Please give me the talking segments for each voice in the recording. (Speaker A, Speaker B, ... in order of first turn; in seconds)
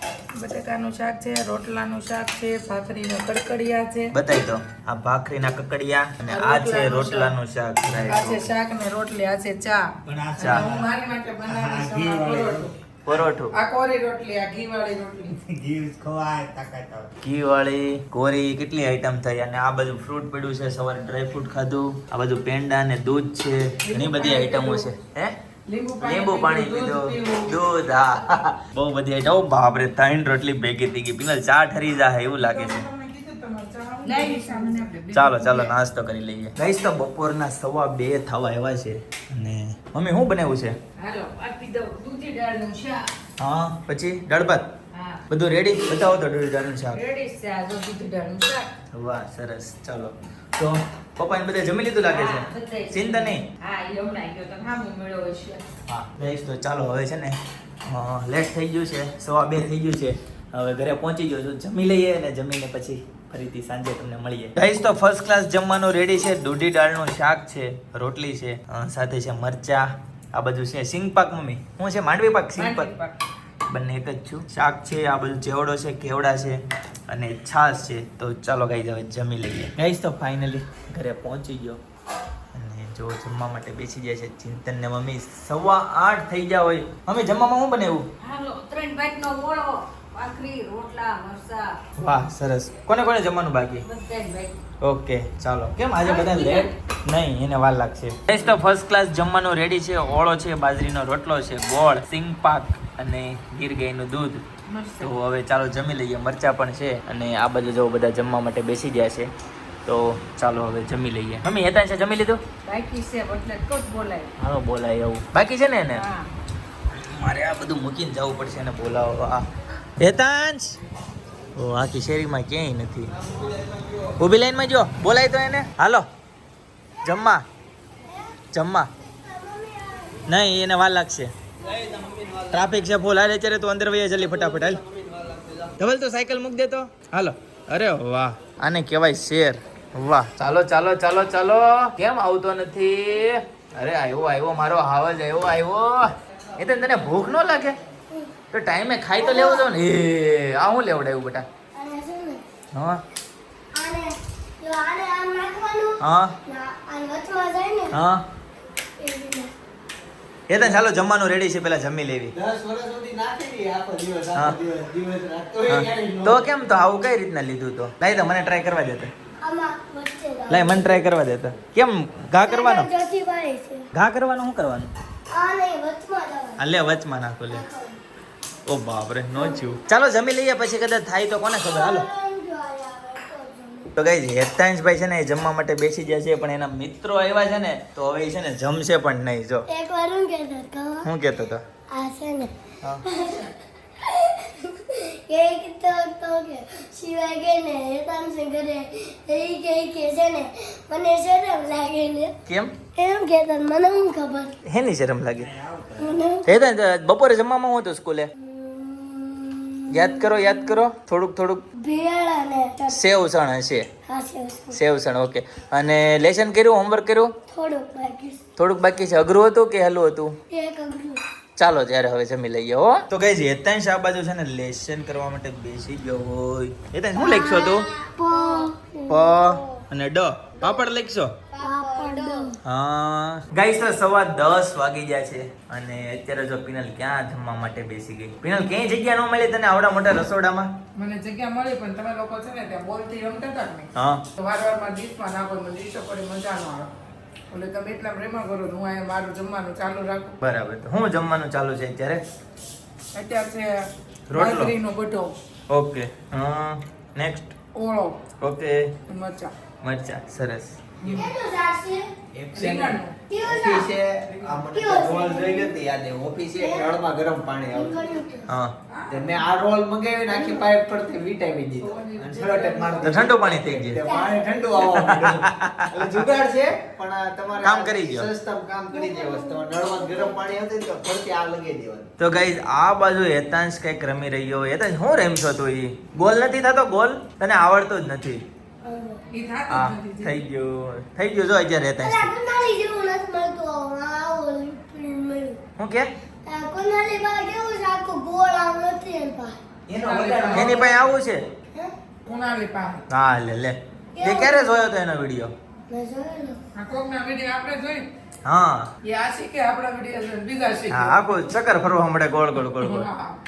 Speaker A: 0.3-4.1, 6.3-7.4, 8.1-15.4, 23.8-25.0, 25.7-27.6, 32.4-35.7, 72.5-73.2, 240.9-246.9, 247.5-250.4, 253.1-255.4, 257.8-258.2, 259.1-259.5, 261.0-261.3, 262.5-263.2, 263.8-264.7, 268.9-269.5, 271.8-273.7, 289.3-290.4, 299.9-301.0, 302.2-303.1, 306.8-308.1, 309.0-311.4, 312.6-313.4
Speaker B: 4.1-8.5, 10.4-10.7, 13.1-13.5, 17.2-25.4, 26.0-32.8, 35.1-40.8, 43.4-44.7, 45.3-47.0, 48.9-53.5, 55.9-72.9, 73.7-81.8, 82.5-88.1, 92.0-93.8, 94.8-104.4, 105.0-109.3, 109.8-112.4, 114.4-116.1, 116.9-119.5, 120.0-120.8, 121.6-123.1, 124.2-126.1, 127.0-127.4, 128.5-128.9, 130.3-131.3, 132.5-134.8, 135.8-147.8, 148.5-151.5, 152.7-153.0, 156.0-156.4, 157.9-158.2, 160.5-162.3, 165.7-169.1, 170.5-172.9, 173.9-174.9, 176.6-177.7, 178.7-182.1, 184.0-189.7, 191.0-191.6, 192.8-193.1, 202.5-202.7, 204.7-205.5, 206.4-208.3, 209.9-211.7, 212.9-213.9, 214.7-217.3, 218.6-220.4, 221.6-227.9, 229.1-231.3, 232.6-240.7, 244.0-244.2, 250.4-252.2, 254.3-254.7, 255.7-257.6, 258.4-258.9, 259.8-260.8, 268.5-268.7, 273.0-274.0, 274.9-276.2, 277.6-278.3, 282.2-288.4, 289.7-292.3, 295.8-296.1, 300.0-301.5, 303.1-305.5, 308.4-308.9, 310.9-313.1
Speaker C: 10.1-10.8, 11.5-12.7, 15.5-17.1, 123.1-124.2, 131.6-132.7, 134.2-135.8, 160.6-160.8, 162.3-166.6, 205.4-206.2, 262.3-268.2, 269.1-282.1, 299.9-300.9
Speaker D: 34.0-35.0, 41.0-43.1, 44.9-45.2, 46.9-48.6, 52.0-55.6, 88.2-91.8, 93.8-94.6, 96.0-96.7, 104.7-105.1, 112.7-114.3, 115.9-116.3, 228.3-228.7, 231.7-232.6
Speaker E: 128.0-128.4, 129.0-130.3, 131.6-132.0, 149.2-149.7, 151.7-152.4, 153.7-157.9, 159.0-159.5, 169.4-171.1, 172.4-173.9, 175.3-176.6, 177.5-178.0, 179.3-179.7, 181.6-183.9, 189.7-191.1, 191.9-192.5, 193.0-202.3, 203.0-204.6, 206.0-206.5, 208.4-210.8, 211.8-213.0, 214.1-214.8, 217.5-218.4, 220.5-221.2, 227.2-229.8, 231.6-232.6, 261.1-262.1, 263.3-263.9, 264.7-265.8, 266.6-266.9, 267.7-268.5, 270.3-270.7, 274.0-274.7, 278.9-280.4, 288.8-289.2, 292.0-295.6, 296.4-299.6, 304.1-304.9, 305.9-306.6